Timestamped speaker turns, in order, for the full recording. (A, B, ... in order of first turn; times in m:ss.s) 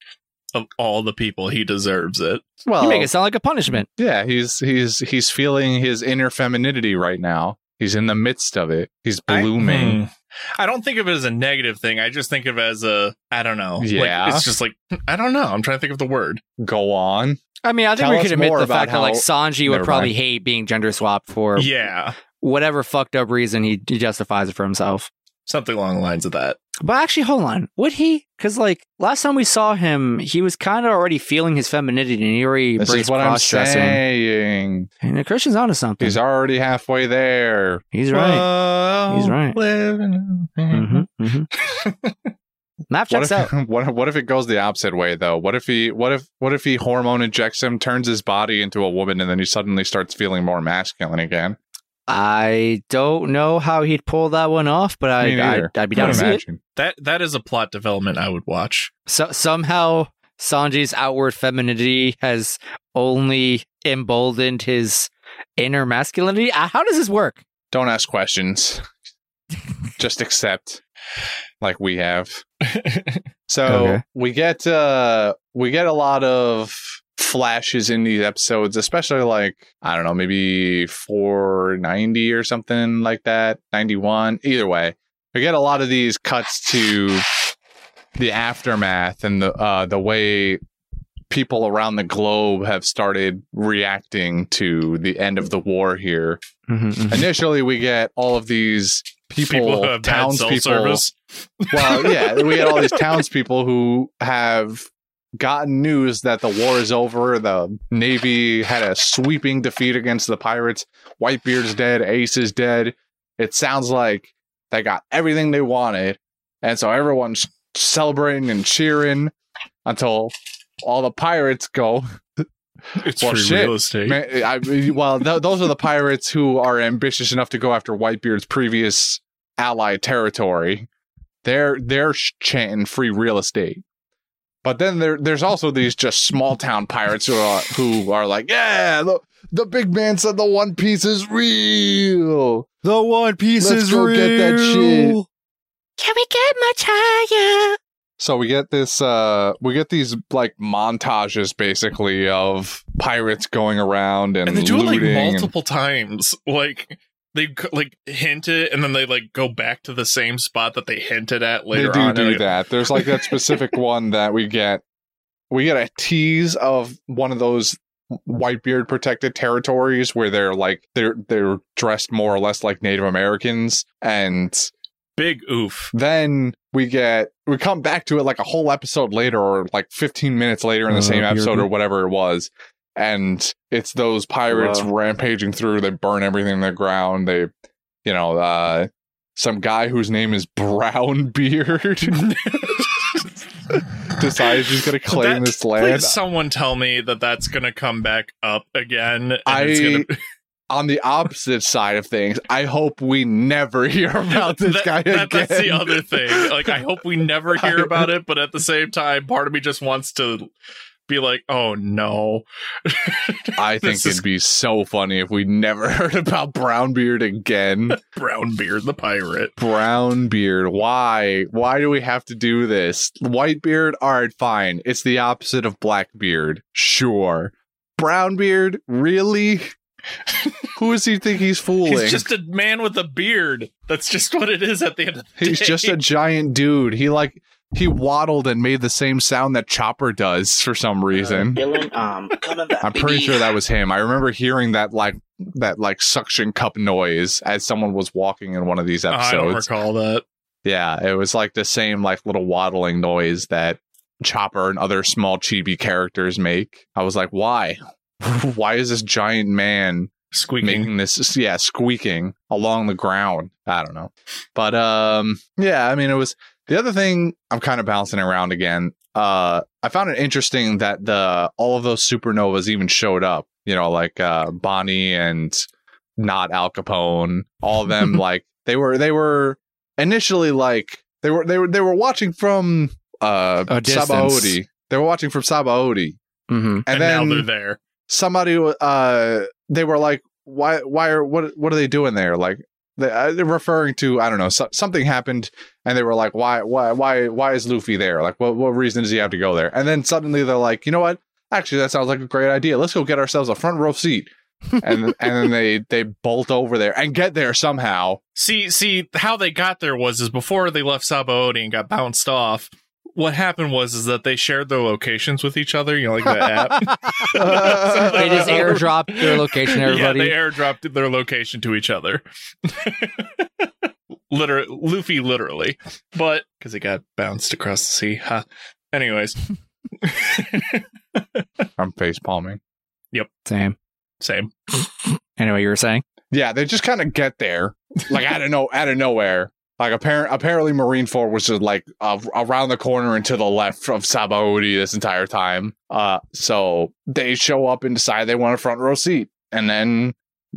0:00.5-0:02.4 A
0:02.6-0:03.1 B
0:02.8-0:03.9 C
0:03.9-0:10.0 B
0:09.3-0:16.4 A
0:13.8-0:14.5 B
0:16.6-0:17.4 B
0:17.6-0:21.7 C
0:18.0-0:20.1 B
0:21.6-0:22.2 A
0:22.4-0:25.1 C
0:25.5-0:26.6 A
0:26.8-0:34.0 C
0:32.8-0:34.9 B
0:35.0-0:36.2 C
0:36.0-0:37.9 B
0:37.9-0:38.5 C
0:38.1-0:41.0 A
0:39.1-0:39.6 C
0:40.7-0:41.5 C
0:41.6-0:42.2 A
0:42.9-0:43.5 C
0:43.1-0:51.6 B
0:52.1-0:56.4 C
0:55.2-0:56.6 B
0:56.0-0:56.2 A
0:56.8-0:58.9 A
0:59.1-1:07.4 C
1:07.7-1:08.8 B
1:10.0-1:10.8 B
1:11.6-1:12.4 B
1:12.6-1:13.2 A
1:13.5-1:27.2 B
1:13.7-1:14.0 C
1:28.2-1:30.6 B
1:31.3-1:36.4 B
1:36.7-1:37.3 C
1:37.1-1:41.0 B
1:39.5-1:43.2 A
1:41.7-1:59.3 B
1:59.8-2:02.4 B
2:03.0-2:04.2 A
2:03.2-2:10.9 B
2:11.4-2:13.8 B
2:14.6-2:22.7 B
2:22.8-2:25.3 C
2:23.6-2:25.2 B
2:26.0-2:27.8 C
2:28.2-2:35.5 B
2:34.5-2:43.6 A
2:41.7-2:44.8 B
2:45.5-2:54.7 B
2:55.2-2:55.9 A
2:55.9-3:07.5 B
3:00.9-3:01.7 C
3:04.5-3:04.9 C
3:08.0-3:12.8 B
3:12.2-3:13.2 A
3:14.0-3:16.2 B
3:15.1-3:20.2 A
3:19.5-3:20.1 B
3:20.7-3:26.8 B
3:24.4-3:30.5 A
3:27.6-3:28.1 B
3:31.1-3:34.2 A
3:33.6-3:38.0 B
3:38.0-3:39.6 A
3:39.6-3:49.7 B
3:50.8-3:52.3 B
3:51.8-3:56.0 A
3:55.4-4:01.6 B
4:01.3-4:03.4 D
4:02.0-4:02.8 C
4:02.8-4:09.7 B
4:09.1-4:10.2 A
4:10.6-4:35.6 B
4:20.3-4:20.9 A
4:36.2-4:46.2 B
4:43.7-4:44.6 C
4:46.5-4:46.8 C
4:46.8-4:47.5 B
4:46.9-4:47.8 A
4:48.1-5:08.2 B
5:08.4-5:23.7 A
5:16.8-5:20.4 C
5:17.3-5:18.8 B
5:24.3-5:29.4 A
5:30.0-5:31.6 A
5:31.8-5:32.6 B
5:33.5-5:33.8 C
5:34.2-5:34.5 A
5:35.4-5:36.0 C
5:36.3-5:50.2 B